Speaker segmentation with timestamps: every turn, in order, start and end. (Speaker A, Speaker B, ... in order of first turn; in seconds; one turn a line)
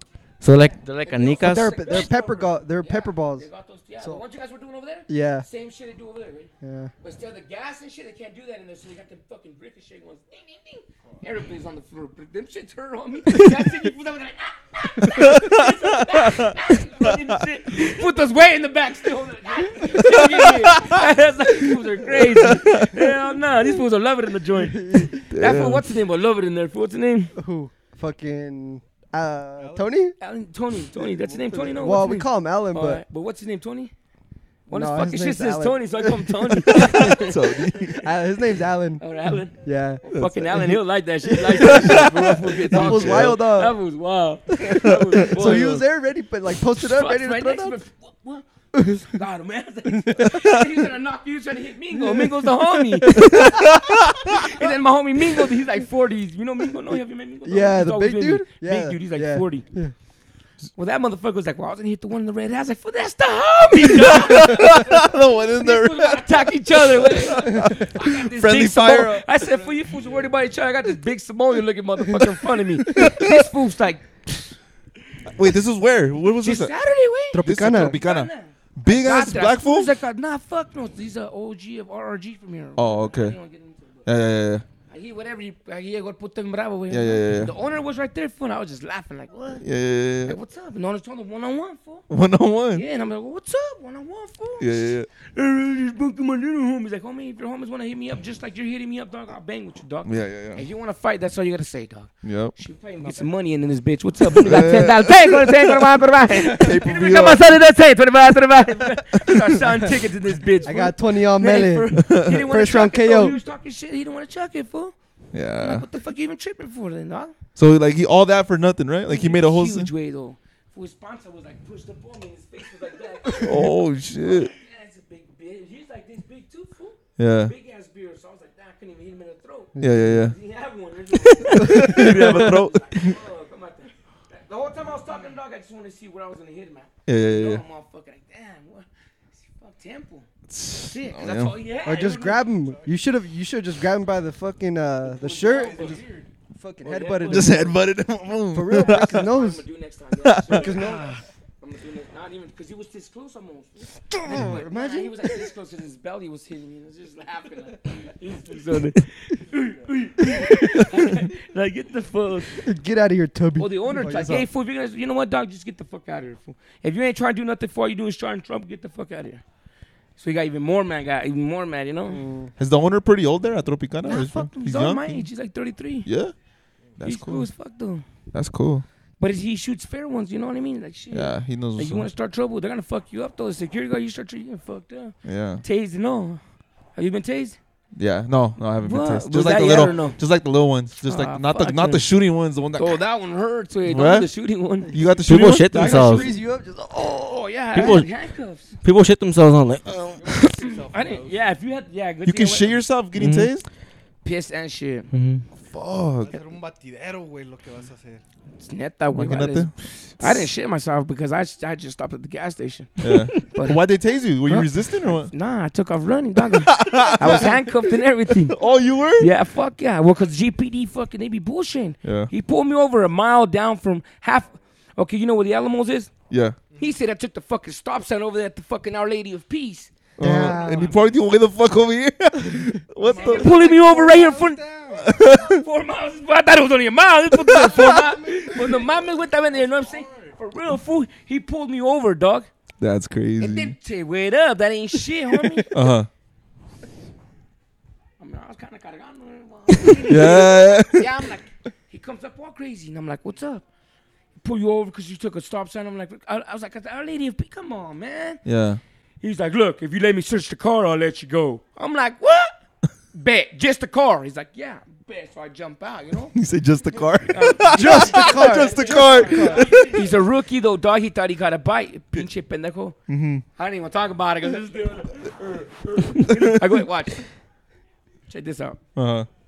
Speaker A: 0.4-2.1
Speaker B: 1.0-27.3
Speaker C: 1.4-3.5
Speaker C: 5.1-5.5
Speaker C: 6.6-6.9
Speaker D: 15.2-15.8
Speaker D: 20.1-21.0
Speaker D: 22.2-23.0
Speaker C: 24.5-25.2
Speaker D: 25.3-25.9
Speaker C: 27.4-30.1
Speaker E: 29.6-29.9
Speaker B: 30.2-33.9
Speaker E: 31.0-32.1
Speaker C: 31.8-33.0
Speaker B: 34.7-38.0
Speaker C: 34.7-37.3
Speaker D: 36.7-38.0
Speaker C: 38.0-39.0
Speaker B: 39.0-45.8
Speaker C: 39.5-40.2
Speaker D: 40.1-40.7
Speaker C: 41.3-43.8
Speaker D: 41.5-43.4
Speaker C: 44.7-47.8
Speaker D: 44.7-45.8
Speaker B: 46.8-59.7
Speaker C: 48.7-49.1
Speaker C: 49.9-50.5
Speaker C: 52.0-53.6
Speaker D: 53.2-54.5
Speaker C: 57.5-59.9
Speaker B: 60.8-74.5
Speaker D: 63.8-69.3
Speaker C: 67.4-67.8
Speaker E: 69.4-70.3
Speaker D: 72.9-73.5
Speaker D: 75.3-76.7
Speaker B: 76.4-84.1
Speaker C: 77.3-78.0
Speaker D: 77.4-79.9
Speaker D: 82.8-83.4
Speaker D: 84.0-84.7
Speaker B: 84.9-89.7
Speaker D: 86.9-87.5
Speaker D: 89.6-90.4
Speaker B: 90.2-92.1
Speaker D: 92.1-92.8
Speaker B: 92.7-115.0
Speaker D: 94.6-95.1
Speaker D: 100.0-100.6
Speaker D: 102.2-102.5
Speaker D: 104.4-105.7
Speaker D: 106.5-107.5
Speaker C: 110.6-113.4
Speaker D: 112.0-112.4
Speaker D: 115.3-115.8
Speaker B: 115.6-117.3
Speaker D: 117.6-119.9
Speaker B: 119.1-140.3
Speaker D: 123.3-124.5
Speaker D: 127.2-127.5
Speaker C: 129.8-130.2
Speaker D: 129.8-130.4
Speaker D: 131.2-133.1
Speaker C: 131.7-132.5
Speaker D: 137.1-137.6
Speaker D: 140.5-141.6
Speaker B: 140.8-142.5
Speaker C: 141.8-146.0
Speaker E: 142.5-143.1
Speaker E: 145.1-146.3
Speaker B: 145.2-146.1
Speaker C: 146.5-147.8
Speaker B: 146.8-147.8
Speaker D: 147.3-149.2
Speaker C: 148.5-149.6
Speaker B: 148.8-162.6
Speaker D: 150.2-150.7
Speaker C: 150.5-151.2
Speaker E: 150.8-151.2
Speaker C: 154.2-155.2
Speaker C: 162.6-164.5
Speaker B: 163.6-169.4
Speaker B: 170.2-172.2
Speaker C: 172.1-172.5
Speaker D: 172.6-175.3
Speaker B: 174.0-176.1
Speaker D: 176.1-176.3
Speaker D: 177.0-177.5
Speaker B: 177.0-178.1
Speaker D: 178.3-178.8
Speaker B: 179.2-186.4
Speaker D: 181.1-182.1
Speaker D: 185.2-185.6
Speaker B: 186.9-187.6
Speaker D: 188.0-193.0
Speaker B: 188.8-190.2
Speaker B: 191.0-192.1
Speaker B: 192.8-194.9
Speaker D: 193.8-194.3
Speaker D: 194.8-196.1
Speaker C: 194.9-197.4
Speaker A: 195.2-196.3
Speaker B: 195.7-196.4
Speaker B: 197.0-198.8
Speaker A: 197.7-198.1
Speaker A: 198.8-199.9
Speaker E: 200.1-201.4
Speaker B: 200.2-202.8
Speaker D: 202.2-203.7
Speaker A: 203.2-203.5
Speaker B: 204.2-205.1
Speaker A: 205.1-205.4
Speaker D: 205.6-206.3
Speaker E: 206.2-208.2
Speaker B: 208.6-213.8
Speaker D: 209.1-210.5
Speaker D: 213.0-215.3
Speaker B: 214.5-218.6
Speaker D: 216.7-217.8
Speaker D: 218.4-219.3
Speaker B: 219.2-226.1
Speaker D: 222.0-222.3
Speaker D: 226.3-226.6
Speaker B: 226.8-229.9
Speaker C: 230.2-230.9
Speaker D: 230.2-233.6
Speaker E: 230.4-231.1
Speaker E: 233.0-235.3
Speaker B: 233.2-234.6
Speaker D: 235.0-235.6
Speaker B: 235.2-242.5
Speaker D: 237.5-237.9
Speaker E: 237.8-240.4
Speaker D: 242.8-243.8
Speaker B: 243.4-245.7
Speaker D: 245.7-246.1
Speaker B: 248.2-253.7
Speaker D: 250.0-251.2
Speaker B: 254.4-258.4
Speaker D: 258.4-258.8
Speaker B: 259.2-262.5
Speaker B: 263.1-266.4
Speaker D: 266.4-270.0
Speaker B: 267.3-273.0
Speaker C: 267.7-269.8
Speaker E: 269.0-270.0
Speaker D: 273.1-273.4
Speaker B: 273.6-277.3
Speaker D: 276.3-276.5
Speaker B: 278.3-278.8
Speaker D: 278.9-279.3